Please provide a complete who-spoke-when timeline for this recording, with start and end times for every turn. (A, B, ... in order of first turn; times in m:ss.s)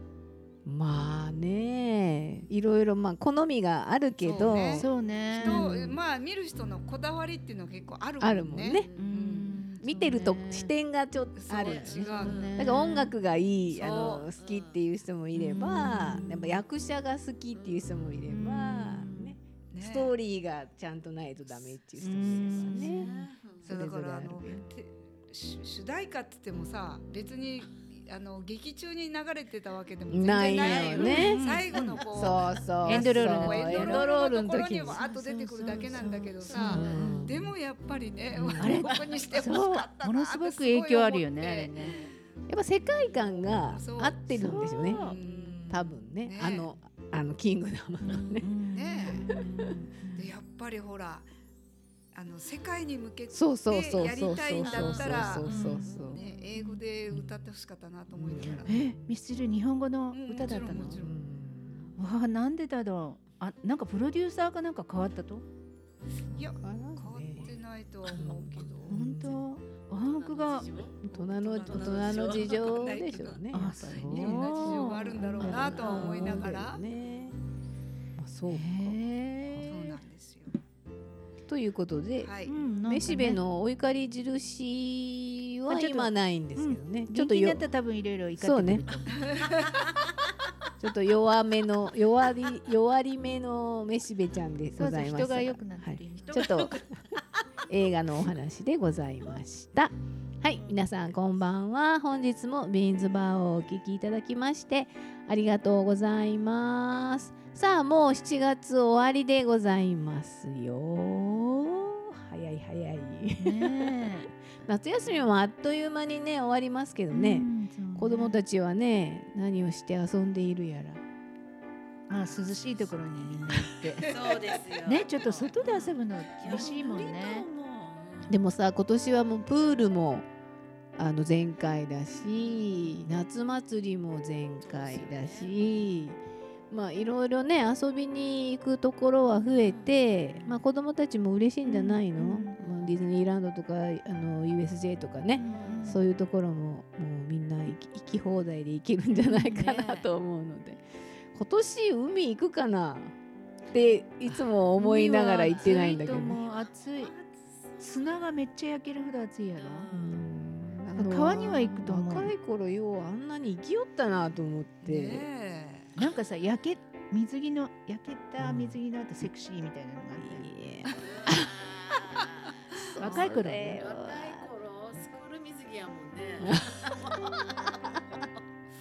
0:00.6-0:05.9 A
0:04.2-0:04.8 B
0:04.7-0:05.9 C
0:05.4-0:09.6 B
0:08.2-0:08.9 A
0:09.0-0:10.7 C
0:09.8-0:23.1 A
0:11.4-0:12.7 B
0:11.6-0:13.1 D
0:11.9-0:13.0 C
0:13.7-0:14.8 D
0:13.8-0:14.2 B
0:15.3-0:16.6 C
0:17.6-0:17.9 D
0:18.3-0:19.4 C
0:19.7-0:20.1 B
0:22.0-0:23.2 C
0:22.2-0:23.7 D
0:23.6-0:42.0 B
0:23.6-0:24.6 A
0:30.1-0:35.0 A
0:30.5-0:31.4 D
0:31.0-0:32.0 C
0:32.8-0:34.1 C
0:34.9-0:37.3 C
0:36.5-0:37.5 A
0:38.3-0:38.8 A
0:38.6-0:42.0 C
0:38.8-0:39.2 D
0:42.5-0:45.0 A
0:43.6-0:46.7 B
0:44.3-0:45.2 C
0:44.9-0:45.7 D
0:45.7-0:48.5 A
0:48.1-0:50.3 C
0:48.7-0:49.2 B
0:49.1-0:49.4 A
0:50.1-0:51.3 B
0:52.1-0:58.8 B
0:53.3-0:56.2 A
0:54.5-0:56.4 D
0:55.4-0:55.9 C
0:58.1-0:59.0 A
0:58.6-1:01.0 C
1:00.1-1:01.2 B
1:00.9-1:01.9 A
1:02.0-1:05.4 C
1:06.3-1:09.0 B
1:06.3-1:09.5 A
1:08.9-1:10.8 C
1:09.9-1:11.0 D
1:11.0-1:17.4 A
1:11.1-1:16.8 B
1:11.6-1:12.6 D
1:13.5-1:16.4 C
1:17.0-1:17.3 D
1:18.2-1:19.0 A
1:18.5-1:20.0 C
1:19.6-1:20.5 B
1:21.5-1:27.6 A
1:22.2-1:22.6 B
1:22.4-1:23.4 C
1:25.7-1:29.3 C
1:28.4-1:28.8 A
1:29.2-1:29.8 B
1:30.8-1:36.8 A
1:34.7-1:36.7 C
1:36.2-1:37.4 D
1:37.7-1:54.1 A
1:40.6-1:40.9 D
1:53.4-1:54.3 C
1:54.6-2:01.0 A
1:57.1-1:58.3 C
2:02.1-2:04.1 C
2:02.8-2:08.4 D
2:04.1-2:04.6 B
2:04.8-2:07.5 C
2:08.3-2:10.2 A
2:11.0-2:16.2 A
2:12.5-2:12.9 D
2:14.6-2:15.6 D
2:16.7-2:33.1 A
2:19.6-2:20.0 D
2:21.6-2:22.6 C
2:22.6-2:23.0 D
2:25.3-2:26.0 C
2:25.4-2:25.9 D
2:29.2-2:30.0 D
2:33.7-2:36.4 A
2:34.8-2:37.1 C
2:35.4-2:38.2 D
2:37.8-2:39.9 C
2:39.6-2:40.2 D
2:39.9-2:45.3 A
2:40.9-2:42.3 C
2:44.8-2:46.0 B
2:46.0-2:50.5 C
2:48.4-2:48.8 A
2:50.2-2:51.6 A
2:51.0-2:58.3 D
2:52.7-2:54.5 A
2:53.0-2:53.8 C
2:56.4-2:57.2 A